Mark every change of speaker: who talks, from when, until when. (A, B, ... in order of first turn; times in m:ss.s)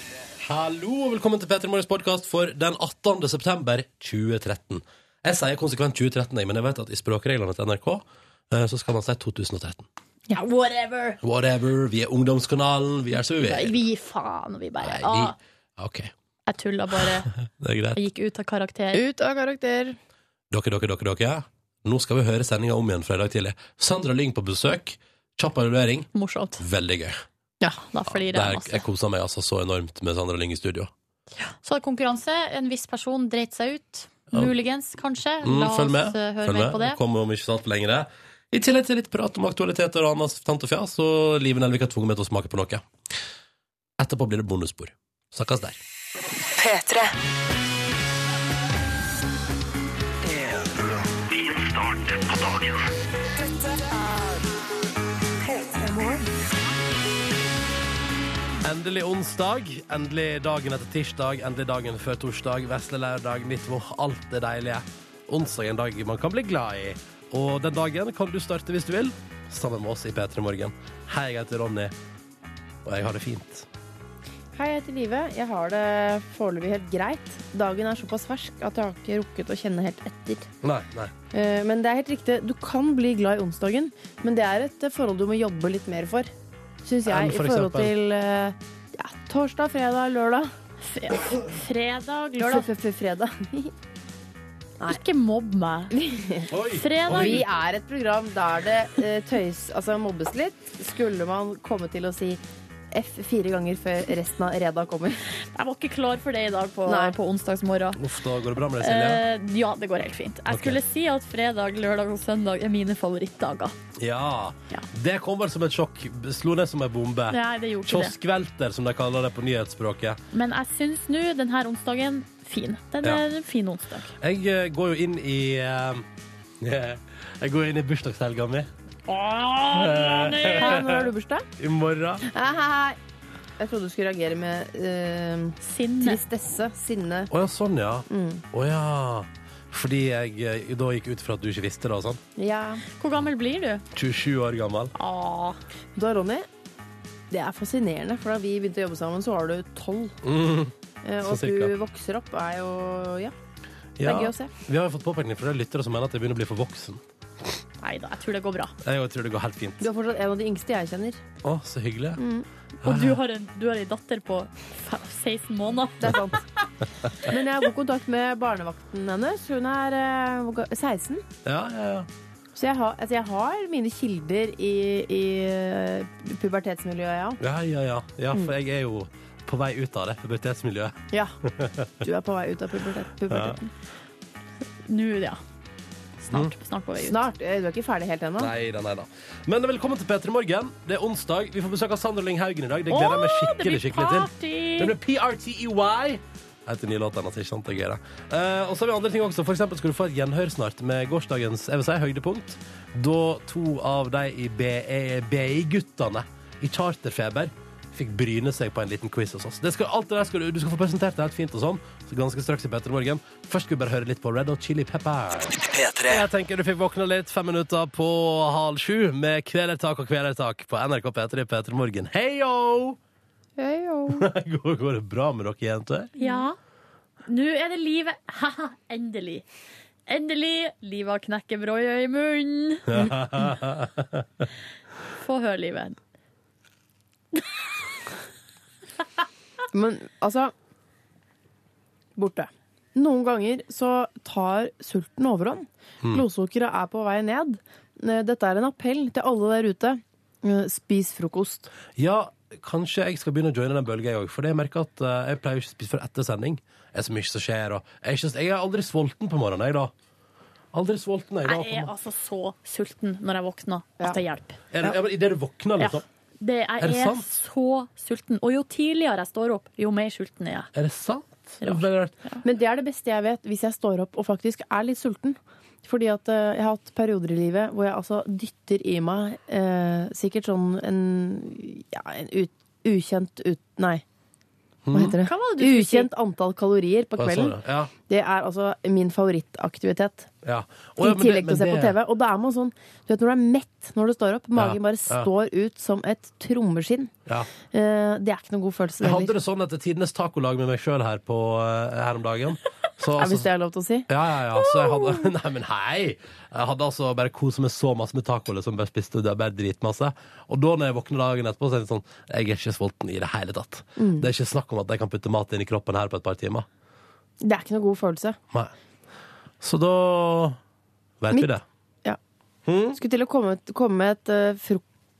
0:00.4-0:09.9 A
0:10.3-0:11.2 B
0:11.2-0:13.8 A
0:13.3-0:15.3 B
0:14.8-0:16.1 A
0:16.5-0:17.3 B
0:17.4-0:18.0 A
0:17.9-0:19.0 B
0:18.9-0:20.0 C
0:20.5-0:27.2 A
0:26.1-0:26.6 B
0:27.9-0:28.8 B
0:28.1-0:30.9 A
0:31.4-0:37.0 B
0:35.4-0:42.8 A
0:44.0-0:45.8 A
0:46.5-0:47.2 D
0:50.2-0:52.6 D
0:55.5-0:56.0 D
0:58.6-1:11.9 A
1:12.8-1:13.7 A
1:14.5-1:20.5 C
1:20.6-1:21.1 A
1:21.3-1:26.3 C
1:26.8-1:30.5 C
1:27.1-1:27.9 A
1:30.8-1:32.7 B
1:32.4-1:33.7 C
1:34.8-1:35.9 B
1:35.9-1:36.5 C
1:36.5-1:37.4 A
1:36.7-1:37.4 B
1:37.1-1:42.4 C
1:42.9-1:45.2 C
1:45.5-1:48.0 B
1:46.8-1:47.2 C
1:48.0-1:49.2 A
1:48.8-1:53.7 B
1:50.5-1:50.8 A
1:54.0-2:00.2 A
1:57.3-1:58.1 B
2:00.3-2:04.1 B
2:04.2-2:06.0 A
2:06.6-2:08.7 A
2:09.1-2:10.8 B
2:09.7-2:11.0 A
2:10.3-2:11.5 C
2:11.6-2:12.2 A
2:12.3-2:13.0 C
2:13.6-2:17.3 C
2:15.6-2:16.2 B
2:17.3-2:22.2 A
2:18.1-2:18.4 C
2:22.4-2:22.8 C
2:23.0-2:23.8 B
2:23.9-2:24.9 A
2:24.9-2:25.6 B
2:26.0-2:26.5 C
2:27.3-2:30.1 C
2:30.2-2:31.7 A
2:31.0-2:33.3 C
2:34.0-2:37.0 A
2:34.0-2:34.5 C
2:37.8-2:38.7 B
2:38.8-2:39.8 A
2:39.8-2:41.2 C
2:41.4-2:42.2 A
2:42.2-2:42.5 C
2:42.8-2:43.2 A
2:42.8-2:46.2 B
2:46.0-2:46.4 C
2:47.2-2:51.2 C
2:51.4-2:52.1 A
2:52.6-2:57.4 C
2:57.4-3:01.9 A
3:02.0-3:03.7 C
3:03.3-3:03.6 A
3:04.9-3:05.4 B
3:06.2-3:07.2 B
3:07.0-3:08.5 C
3:08.4-3:35.6 A
3:12.9-3:14.9 B
3:35.5-3:36.2 D
3:36.1-3:43.0 A
3:43.6-3:44.2 C
3:44.1-3:46.1 A
3:46.2-3:46.6 B
3:47.3-3:49.4 B
3:50.1-3:52.9 B
3:52.9-3:54.4 A
3:55.1-3:56.0 B
3:59.7-4:00.5 C
4:02.2-4:11.7 C
4:12.0-4:19.9 A
4:20.7-4:21.9 A
4:21.4-4:24.6 B
4:24.7-4:26.0 A
4:25.8-4:30.7 B
4:26.8-4:27.4 A
4:30.7-4:32.1 A
4:31.6-4:32.4 B
4:32.4-4:44.0 C
4:44.8-4:45.2 A
4:44.9-4:47.6 C
4:45.2-4:46.1 B
4:47.2-4:47.9 A
4:48.1-4:50.3 C
4:50.4-4:52.0 A
4:51.0-4:57.1 C
4:54.6-4:55.3 A
4:57.7-4:59.3 C
4:59.0-5:03.5 A
5:03.2-5:04.1 C
5:04.1-5:16.7 A
5:14.0-5:14.3 C
5:17.4-5:18.4 C
5:19.6-5:20.6 A
5:21.2-5:21.6 A
5:22.6-5:23.0 A
5:23.0-5:24.8 C